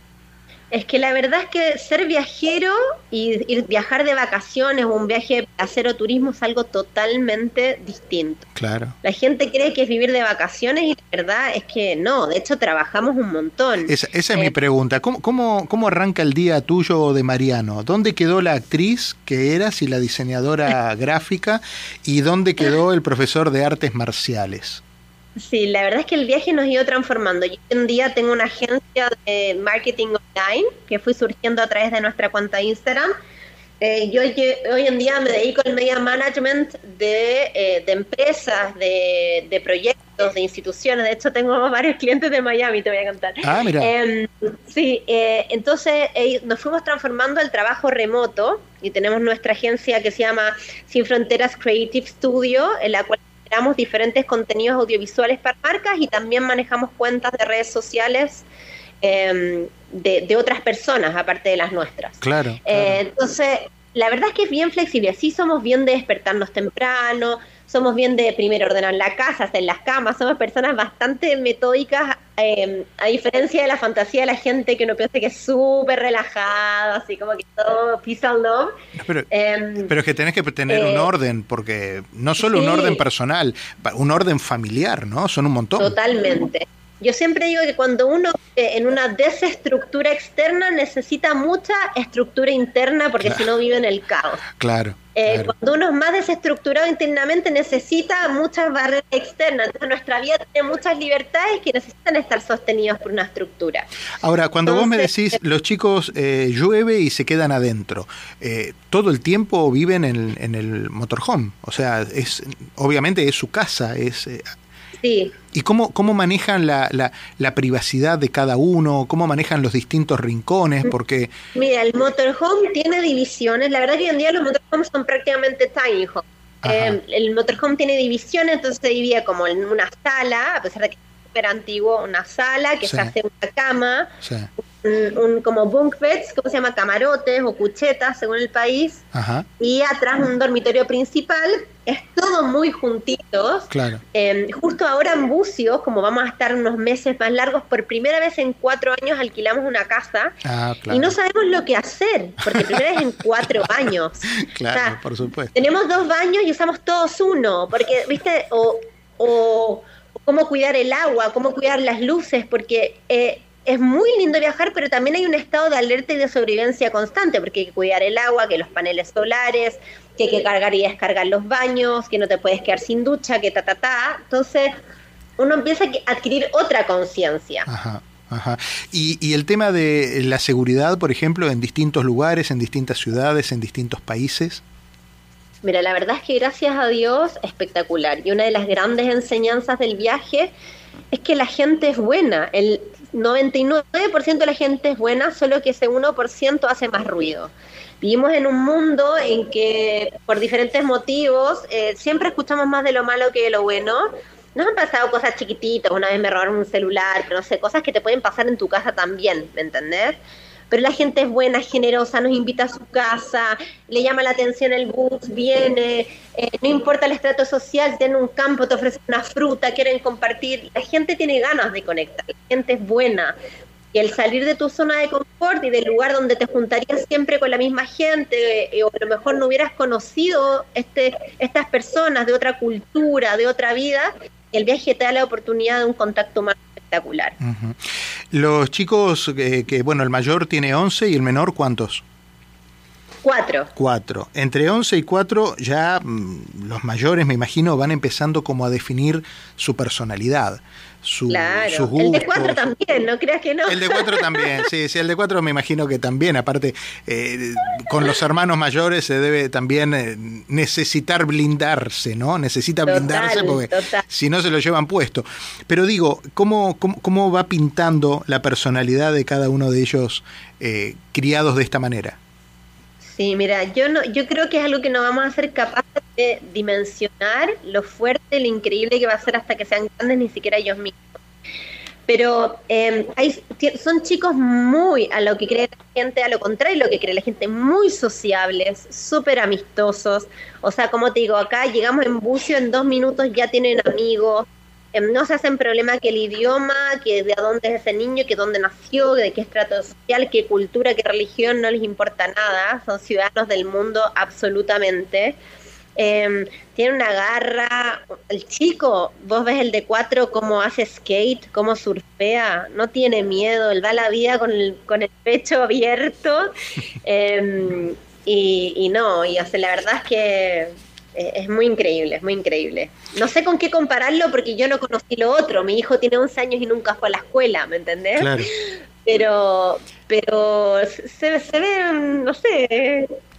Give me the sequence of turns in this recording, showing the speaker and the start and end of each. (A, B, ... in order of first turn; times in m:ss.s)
0:00.7-0:08.5 A
0:08.6-0:09.0 B
0:09.0-0:14.5 A
0:13.9-0:24.8 B
0:25.4-0:33.1 A
0:33.8-0:58.4 A
0:43.4-0:43.9 B
0:59.0-1:18.7 A
1:02.2-1:03.0 B
1:19.0-1:19.3 B
1:19.3-1:19.9 A
1:19.9-1:26.0 B
1:20.7-1:21.1 A
1:22.4-1:23.0 A
1:25.8-1:34.5 A
1:34.6-1:35.5 B
1:35.2-1:43.9 A
1:44.2-1:54.5 B
1:44.7-1:45.1 A
1:55.0-1:55.4 A
1:55.5-2:01.3 B
2:01.5-2:14.1 A
2:06.6-2:07.0 B
2:12.8-2:13.1 B
2:14.2-2:14.5 B
2:14.6-2:19.0 A
2:19.1-2:19.5 B
2:19.6-2:30.4 A
2:23.7-2:24.0 B
2:30.4-2:31.2 B
2:30.9-2:35.0 A
2:32.5-2:33.7 B
2:34.3-2:35.7 B
2:35.5-2:54.7 A
2:55.4-2:57.7 A
2:57.7-3:04.6 B
3:05.6-3:10.5 A
3:11.1-3:30.2 A
3:30.7-3:43.4 A
3:43.9-3:57.4 A
3:57.4-3:57.8 B
3:58.3-4:02.0 B
4:03.2-4:03.7 A
4:03.8-4:12.6 B
4:11.3-4:14.7 A
4:13.7-4:32.2 B
4:22.9-4:24.0 A
4:33.0-4:41.2 A
4:42.1-5:05.4 A
5:06.0-5:33.1 A
5:28.2-5:28.5 B